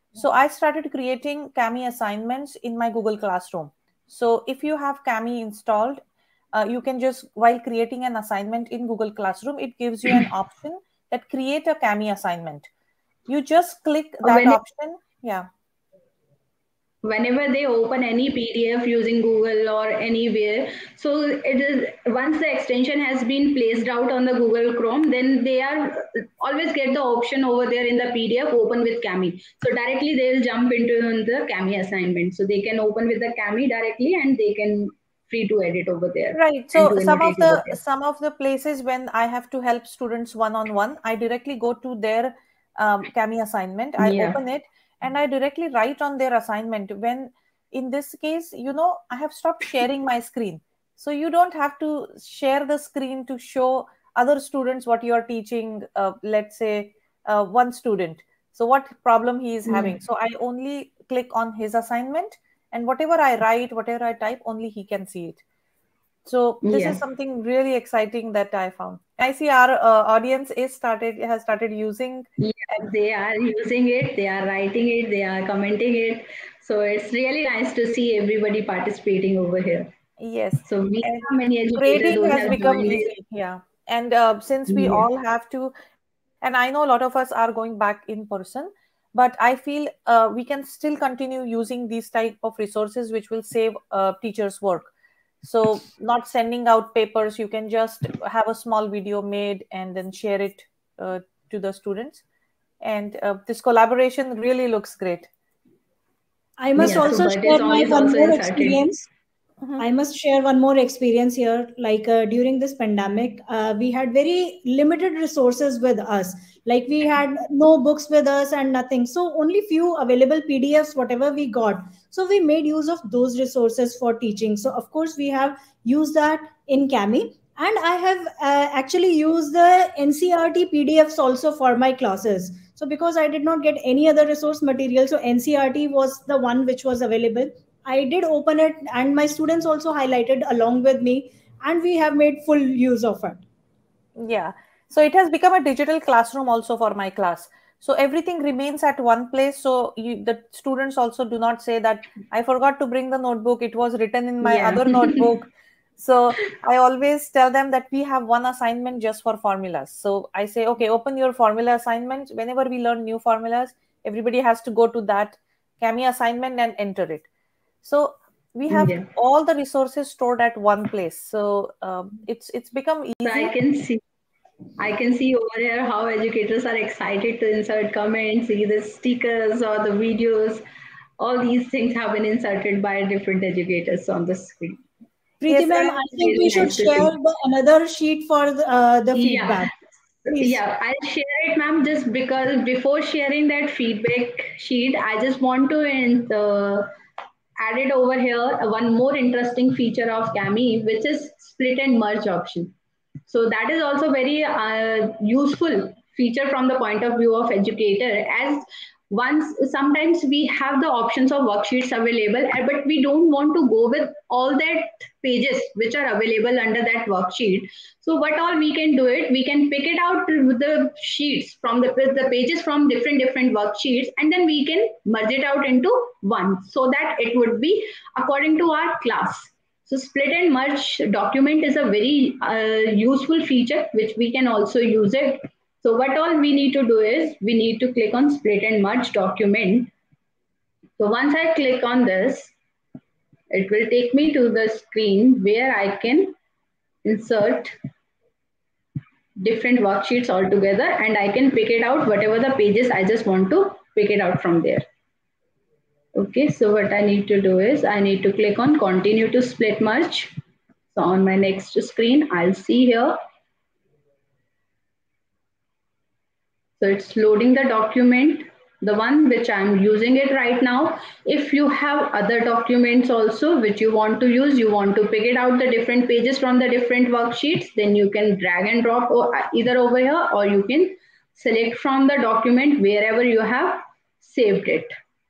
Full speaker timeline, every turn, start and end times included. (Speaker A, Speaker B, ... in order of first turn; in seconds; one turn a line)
Speaker A: 0.1-6.0
Speaker A: 6.5-12.7
Speaker A: 13.3-15.5
Speaker B: 14.2-14.6
Speaker B: 17.0-37.8
Speaker A: 36.3-65.4
Speaker B: 44.0-44.4
Speaker B: 59.7-60.0
Speaker A: 66.3-72.3
Speaker B: 66.6-67.0
Speaker B: 72.4-79.9
Speaker A: 80.2-85.7
Speaker B: 80.7-83.1
Speaker B: 84.7-85.1
Speaker A: 86.4-94.9
Speaker A: 95.4-102.2
Speaker A: 102.8-105.3
Speaker C: 106.6-109.1
Speaker B: 106.8-108.8
Speaker C: 109.8-143.4
Speaker A: 144.2-167.3
Speaker B: 154.4-155.3
Speaker A: 167.8-173.5
Speaker B: 168.7-169.1
Speaker B: 173.2-174.0
Speaker B: 174.8-180.6
Speaker B: 181.2-184.8
Speaker C: 185.4-189.7
Speaker B: 185.7-187.1
Speaker B: 189.2-189.7
Speaker B: 190.3-196.9
Speaker B: 197.6-202.7
Speaker B: 203.3-239.9
Speaker B: 241.0-242.5
Speaker B: 243.5-246.4
Speaker B: 247.1-247.7
Speaker B: 249.4-254.8
Speaker B: 256.2-260.4
Speaker B: 260.9-263.2
Speaker B: 266.8-284.9